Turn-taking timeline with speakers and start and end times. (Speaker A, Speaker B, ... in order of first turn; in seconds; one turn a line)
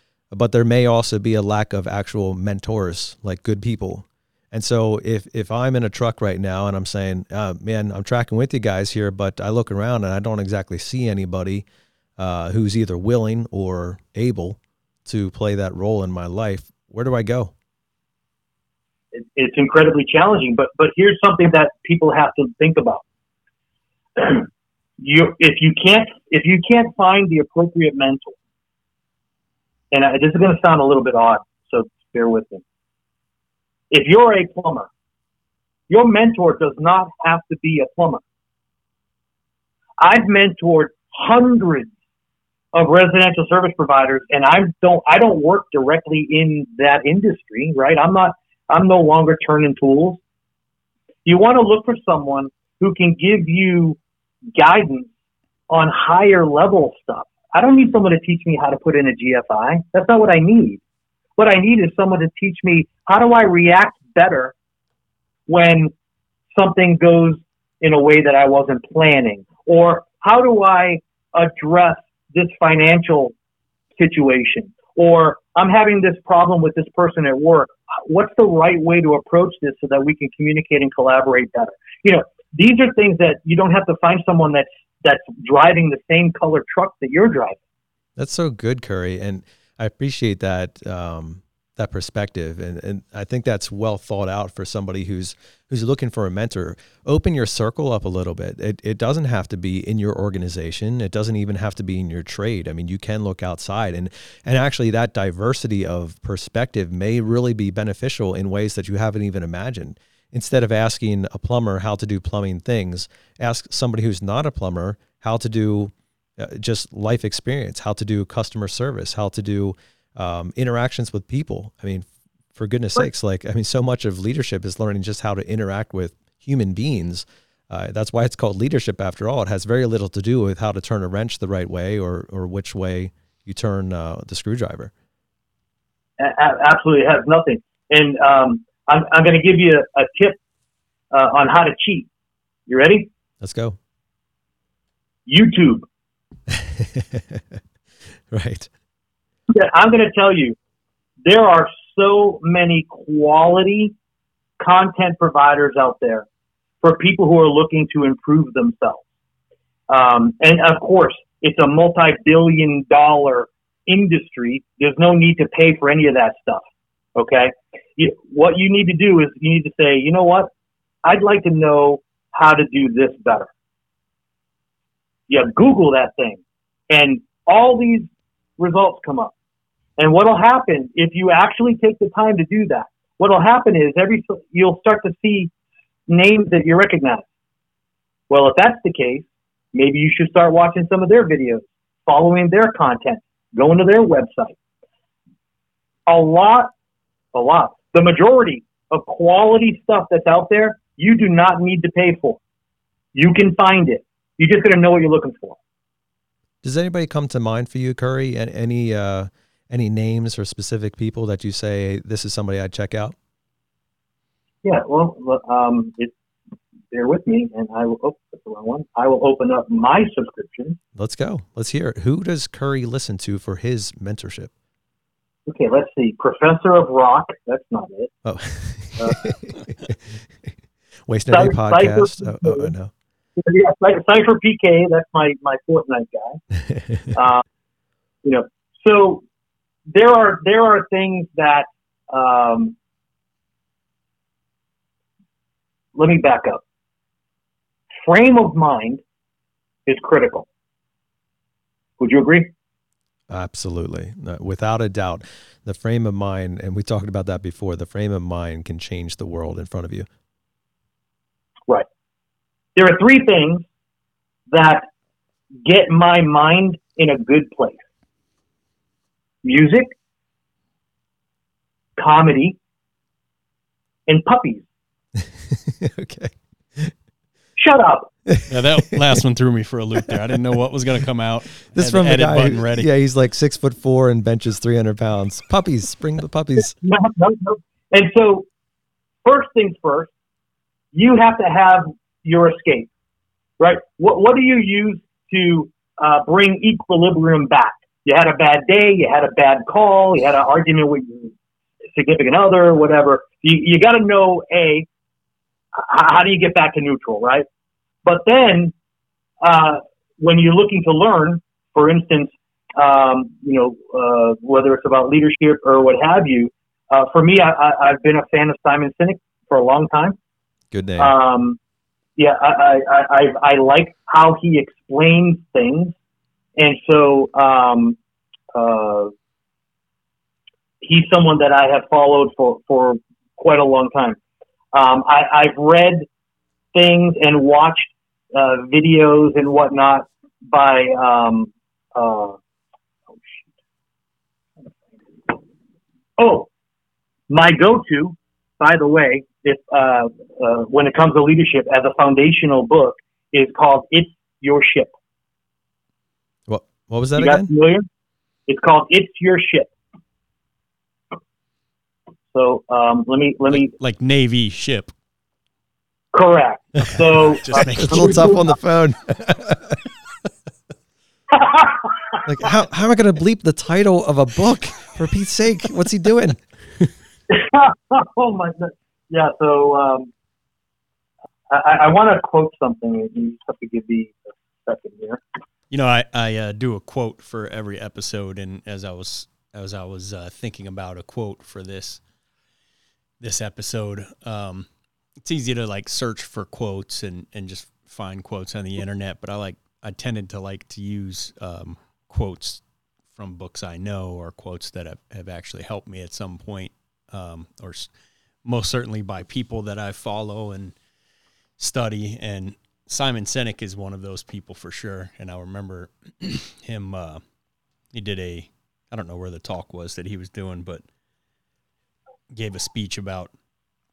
Speaker A: 0.3-11.7
Speaker A: 12.2-17.5
Speaker B: 19.1-23.0
Speaker B: 24.2-24.5
Speaker B: 25.0-28.4
Speaker B: 29.9-32.6
Speaker B: 33.9-34.9
Speaker B: 35.9-38.2
Speaker B: 40.0-41.9
Speaker B: 42.7-50.2
Speaker B: 51.3-54.0
Speaker B: 54.5-55.1
Speaker B: 55.7-60.8
Speaker B: 61.4-64.5
Speaker B: 65.5-65.9
Speaker B: 66.5-73.3
Speaker B: 74.0-87.6
Speaker A: 88.2-134.9
Speaker B: 136.2-140.4
Speaker B: 141.1-142.1
Speaker B: 142.7-143.1
Speaker A: 143.4-143.8
Speaker B: 145.3-145.9
Speaker A: 146.5-147.4
Speaker A: 148.3-148.7
Speaker B: 149.5-150.6
Speaker B: 151.2-153.9
Speaker B: 154.6-156.3
Speaker B: 156.8-159.0
Speaker B: 159.9-166.6
Speaker B: 167.2-170.5
Speaker B: 171.0-173.5
Speaker B: 175.3-179.3
Speaker B: 180.0-185.5
Speaker B: 186.1-187.3
Speaker B: 188.3-194.6
Speaker B: 196.1-196.7
Speaker B: 197.3-202.4
Speaker B: 203.1-205.6
Speaker A: 206.6-213.2
Speaker B: 214.6-216.1
Speaker B: 216.9-220.8
Speaker A: 221.0-224.5
Speaker B: 225.5-228.1
Speaker A: 228.2-230.2
Speaker B: 229.0-229.4
Speaker A: 231.1-232.9
Speaker B: 231.3-232.7
Speaker B: 233.4-236.4
Speaker A: 236.7-237.1
Speaker B: 237.1-237.4
Speaker B: 238.2-239.2
Speaker B: 239.9-242.8
Speaker B: 245.9-246.6
Speaker B: 248.0-249.0
Speaker B: 249.9-250.5
Speaker B: 252.0-252.5
Speaker A: 253.3-260.1
Speaker B: 262.8-263.7
Speaker B: 264.5-264.9
Speaker B: 265.6-267.8
Speaker B: 269.4-269.9
Speaker B: 272.0-272.6
Speaker B: 274.1-274.7
Speaker A: 275.2-276.9
Speaker B: 277.6-278.1
Speaker A: 278.3-279.2
Speaker C: 278.5-282.9
Speaker A: 281.7-286.8
Speaker B: 286.8-288.5
Speaker B: 289.2-290.1
Speaker B: 290.9-292.9
Speaker B: 293.6-301.3
Speaker B: 301.9-304.9
Speaker B: 305.8-307.5
Speaker B: 308.1-308.7
Speaker B: 309.4-320.2
Speaker A: 320.7-321.1
Speaker B: 321.0-321.6
Speaker B: 322.2-325.9
Speaker B: 326.6-328.0
Speaker B: 328.6-329.1
Speaker B: 330.8-334.2
Speaker B: 334.7-336.1
Speaker B: 336.7-342.4
Speaker B: 343.1-343.4
Speaker B: 346.2-346.5
Speaker B: 347.3-354.9
Speaker A: 356.5-357.5
Speaker B: 357.2-357.9
Speaker B: 358.5-359.7
Speaker B: 362.3-363.7
Speaker C: 363.5-364.9
Speaker B: 366.1-368.5
Speaker C: 367.2-368.4
Speaker A: 367.5-369.8
Speaker B: 371.3-372.2
Speaker A: 372.3-376.9
Speaker B: 377.3-380.1
Speaker B: 381.5-385.2
Speaker C: 385.7-392.0
Speaker C: 393.2-394.7
Speaker C: 395.2-402.6
Speaker C: 403.1-407.9
Speaker C: 408.4-410.7
Speaker C: 411.6-417.2
Speaker C: 417.9-420.8
Speaker C: 422.3-423.3